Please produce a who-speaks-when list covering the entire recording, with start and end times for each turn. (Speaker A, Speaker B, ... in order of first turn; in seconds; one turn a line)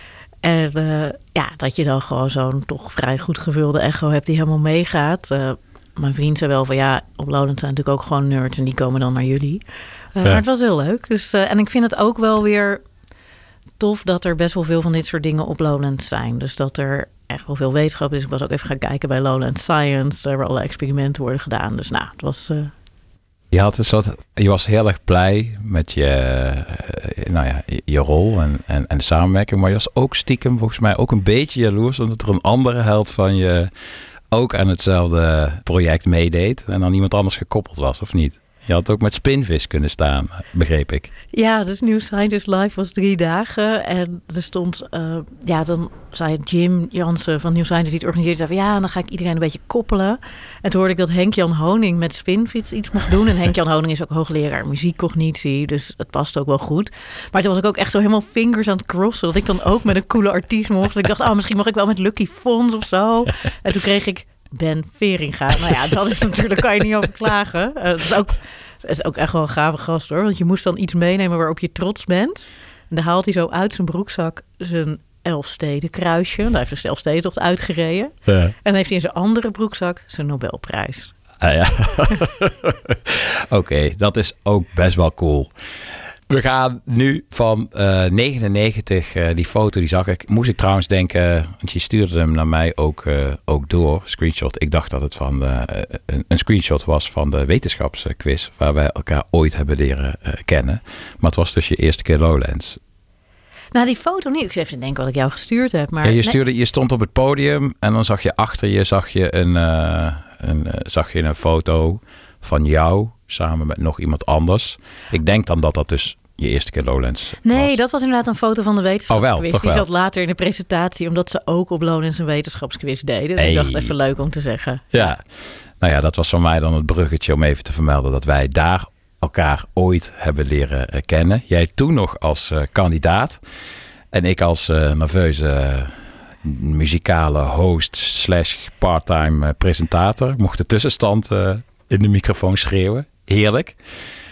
Speaker A: 0.4-9.6
Speaker A: 10.2-12.8
Speaker A: 13.8-22.7
Speaker B: 23.5-33.7
Speaker B: 34.3-41.1
Speaker A: 41.3-81.1
Speaker B: 78.3-78.5
Speaker B: 81.4-85.5
Speaker B: 86.3-102.8
Speaker A: 103.7-106.3
Speaker B: 106.0-117.8
Speaker A: 117.4-125.2
Speaker B: 119.1-119.9
Speaker B: 123.4-123.9
Speaker B: 124.9-125.2
Speaker B: 125.8-133.4
Speaker B: 134.1-143.8